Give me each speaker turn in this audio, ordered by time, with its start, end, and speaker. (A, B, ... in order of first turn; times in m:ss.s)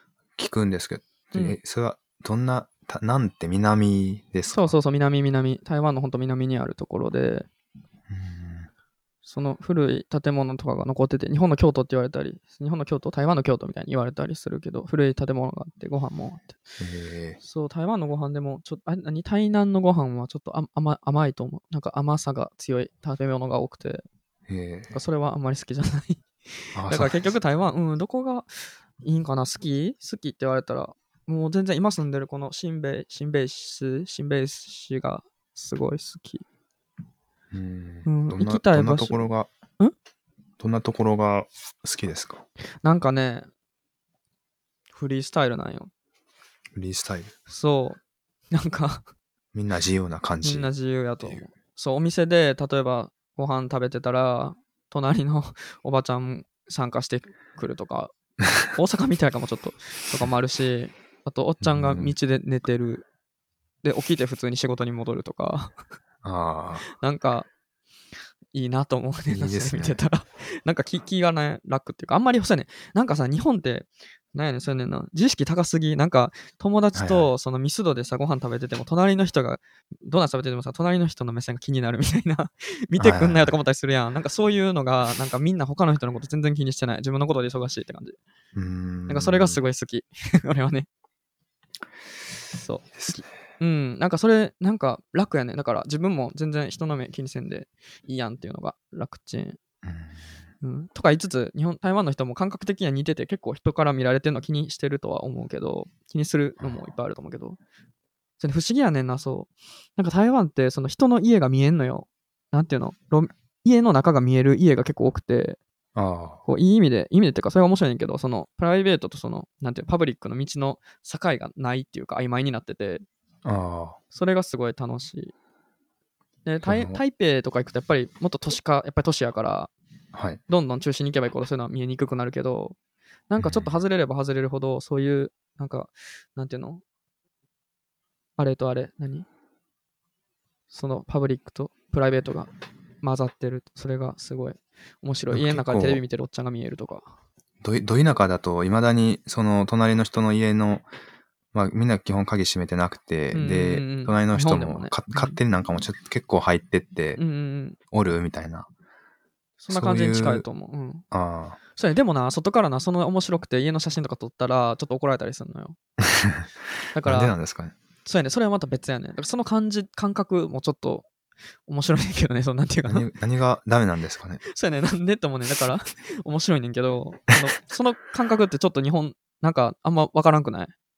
0:00.4-0:04.7 A
0:04.5-0:07.5 B
0:08.1-0:08.7 A
0:09.2-0:16.6 B
0:16.8-0:17.4 A
0:17.4-0:24.0 B
0:24.5-0:24.9 A
0:24.9-0:36.4 B
0:26.7-0:27.3 A
0:37.5-0:39.5 A
0:38.0-0:39.2 B
0:40.6-0:42.4 A
0:42.8-0:43.5 B
0:44.9-0:45.9 B
0:46.7-0:47.3 A
0:47.5-0:48.0 B
0:48.5-0:49.0 B
0:49.5-0:50.7 A
0:50.4-0:58.1 B
0:58.6-1:03.0 B
1:01.6-1:02.1 A
1:03.8-1:05.8 B
1:06.2-1:06.8 A
1:06.9-1:07.5 B
1:08.5-1:28.2 B
1:09.3-1:10.0 A
1:16.9-1:17.3 A
1:23.0-1:23.5 A
1:28.5-1:29.6 A
1:29.1-1:30.9 B
1:32.5-1:39.6 B
1:32.9-1:33.3 A
1:39.8-1:40.2 A
1:40.6-1:47.6 B
1:48.4-1:55.6 B
1:55.9-1:56.4 A
1:56.4-2:03.0 B
2:03.4-2:04.0 A
2:04.1-2:05.3 B
2:06.4-2:09.7 B
2:06.6-2:07.0 A
2:10.1-2:10.4 A
2:10.5-2:12.8 B
2:13.3-2:16.8 B
2:13.4-2:13.7 A
2:18.4-2:19.2 B
2:20.7-2:22.5 B
2:23.0-2:27.2 B
2:25.3-2:26.0 A
2:27.6-2:30.9 A
2:31.5-2:37.2 A
2:33.3-2:35.4 B
2:37.2-2:37.8 B
2:37.9-2:38.7 A
2:39.6-2:41.0 B
2:39.7-2:40.4 A
2:41.1-2:41.6 A
2:41.7-2:45.8 B
2:46.0-2:46.5 A
2:46.9-2:47.3 B
2:47.0-2:47.7 A
2:48.0-2:51.1 B
2:51.7-2:53.1 B
2:52.9-2:54.4 A
2:54.4-3:00.7 B